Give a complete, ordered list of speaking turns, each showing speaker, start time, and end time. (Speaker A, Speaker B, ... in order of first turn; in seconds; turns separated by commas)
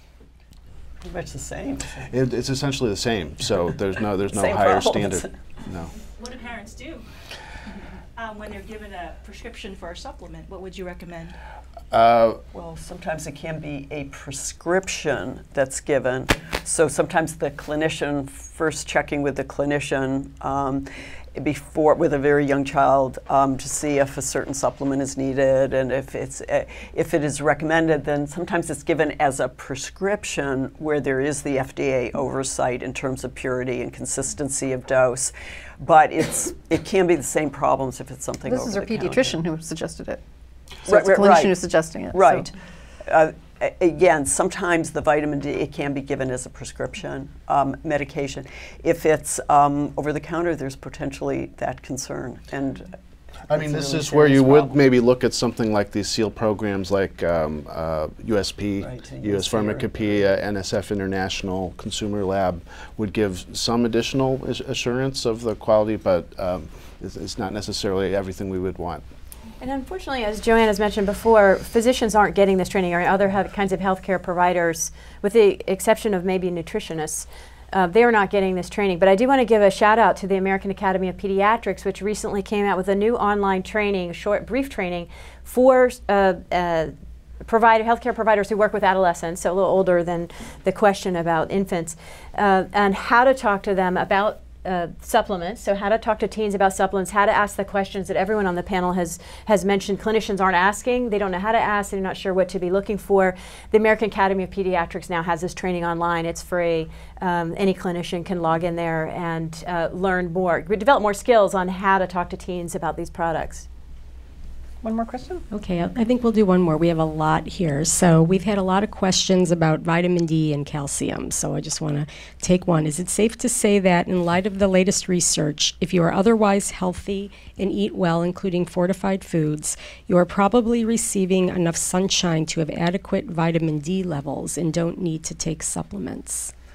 Speaker A: 1.0-2.0, Speaker B: 2.0-5.9, Speaker A: 4.3-5.3, Speaker C: 6.1-7.0, Speaker C: 8.2-11.3, Speaker B: 11.9-12.4, Speaker A: 12.5-39.3, Speaker D: 38.5-40.2, Speaker D: 40.8-42.5, Speaker A: 40.9-41.5, Speaker A: 42.1-42.5, Speaker A: 43.1-52.9, Speaker B: 53.5-69.0, Speaker A: 53.5-54.8, Speaker A: 58.8-60.2, Speaker E: 69.6-86.9, Speaker E: 87.4-113.7, Speaker D: 114.8-115.4, Speaker F: 115.5-136.5